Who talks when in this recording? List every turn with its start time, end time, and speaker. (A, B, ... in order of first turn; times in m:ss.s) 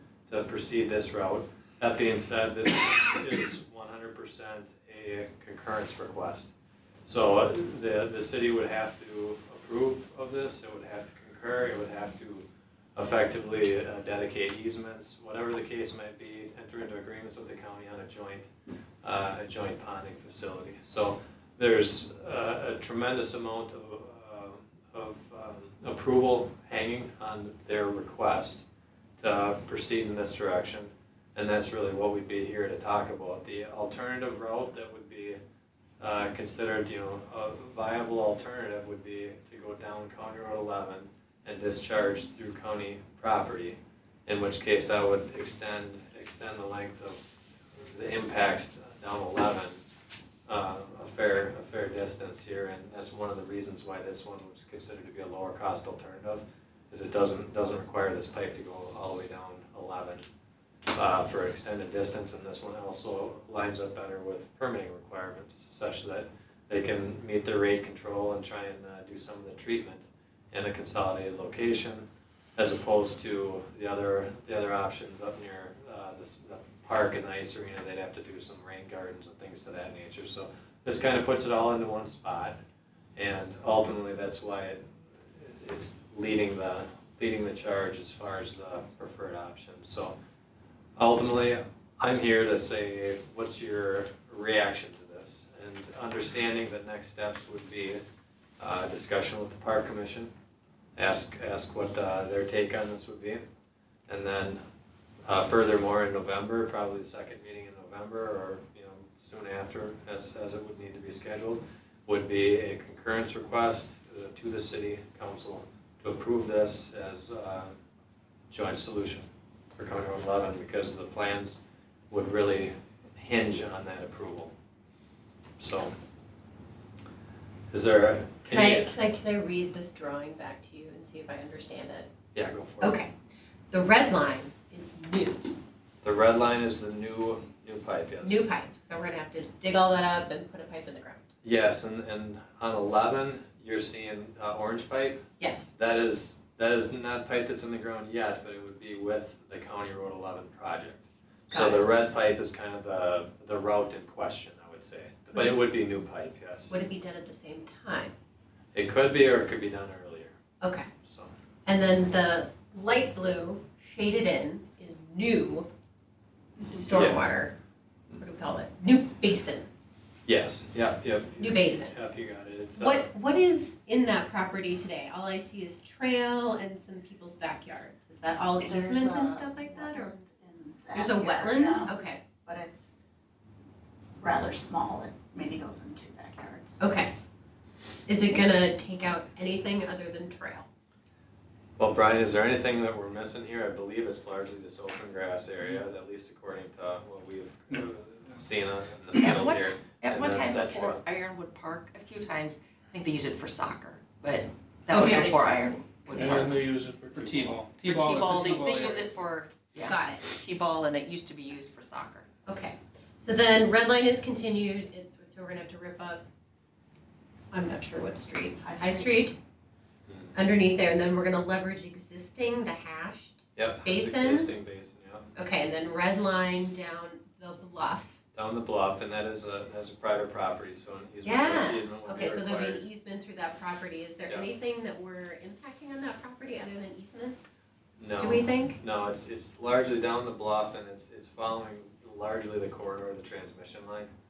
0:00.3-0:06.5 A
0:07.0-0:18.5 A
0:19.0-0:28.6 A
0:29.2-0:35.4 A
0:36.0-0:47.2 A
0:47.8-0:49.8 A
0:50.5-1:00.2 A
1:00.9-1:22.6 A
1:23.2-1:24.8 A
1:25.3-1:30.2 A
1:31.0-1:38.0 A
1:38.6-1:40.3 A
1:41.0-1:43.4 A
1:44.1-1:44.6 A
1:45.3-1:57.8 A
1:58.5-2:04.5 A
2:05.6-2:05.9 A
2:07.7-2:08.9 A
2:08.5-2:12.1 B
2:12.3-2:13.0 A
2:12.8-2:13.1 B
2:13.7-2:15.5 B
2:16.0-2:18.4 A
2:18.2-2:21.3 B
2:21.4-2:25.2 A
2:25.4-2:25.7 B
2:25.7-2:36.8 A
2:31.5-2:31.9 B
2:36.7-2:38.1 B
2:38.7-2:40.4 A
2:40.6-2:40.9 B
2:41.0-2:41.3 A
2:41.7-2:45.7 B
2:46.7-2:47.5 B
2:46.9-2:47.2 A
2:48.2-2:49.7 B
2:50.3-2:53.1 A
2:51.4-2:52.0 B
2:52.8-3:00.2 B
2:58.6-3:03.0 C
3:00.9-3:02.2 B
3:04.2-3:06.8 C
3:06.8-3:07.1 B
3:08.1-3:10.7 B
3:11.8-3:21.0 A
3:17.7-3:18.4 D
3:19.1-3:26.6 E
3:24.9-3:25.4 B
3:26.1-3:29.1 D
3:27.8-3:32.3 E
3:29.8-3:30.3 B
3:32.5-3:36.2 B
3:37.5-3:39.4 B
3:38.6-3:39.3 C
3:40.1-3:40.3 A
3:40.4-3:44.5 B
3:43.6-3:45.3 A
3:45.4-3:48.2 B
3:48.4-3:52.8 A
3:51.2-3:57.4 B
3:58.0-4:04.1 A
3:58.2-3:58.8 B